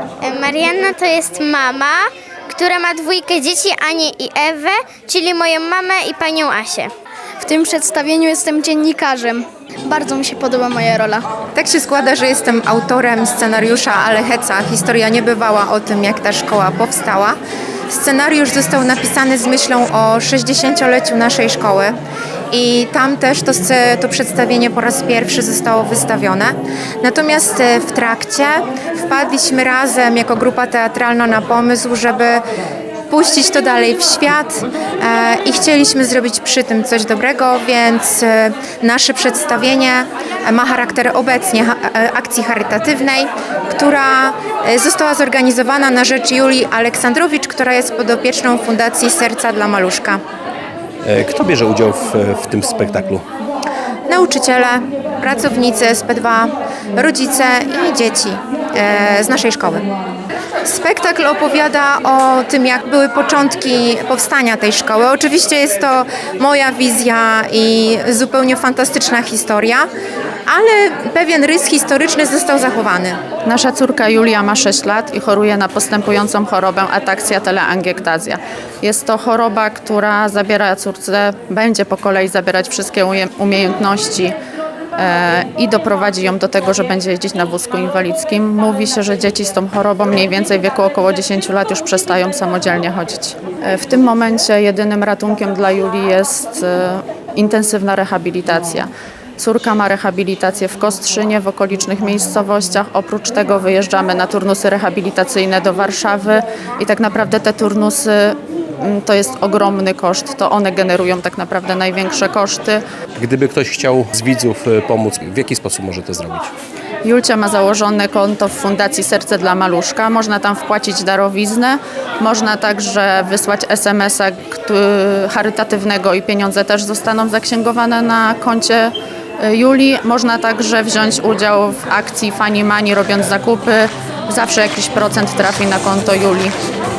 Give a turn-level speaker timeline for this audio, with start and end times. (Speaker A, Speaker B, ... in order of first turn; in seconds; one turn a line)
Speaker A: 0.2-6.9
Speaker B: 7.4-11.3
Speaker C: 11.5-17.4
Speaker C: 17.9-22.0
Speaker C: 22.5-32.4
Speaker C: 33.1-50.2
Speaker D: 51.1-53.2
Speaker C: 54.1-59.9
Speaker C: 60.6-69.9
Speaker C: 70.5-73.2
Speaker E: 73.4-84.3
Speaker E: 85.0-112.8
Speaker D: 113.2-116.5
Speaker E: 117.0-136.5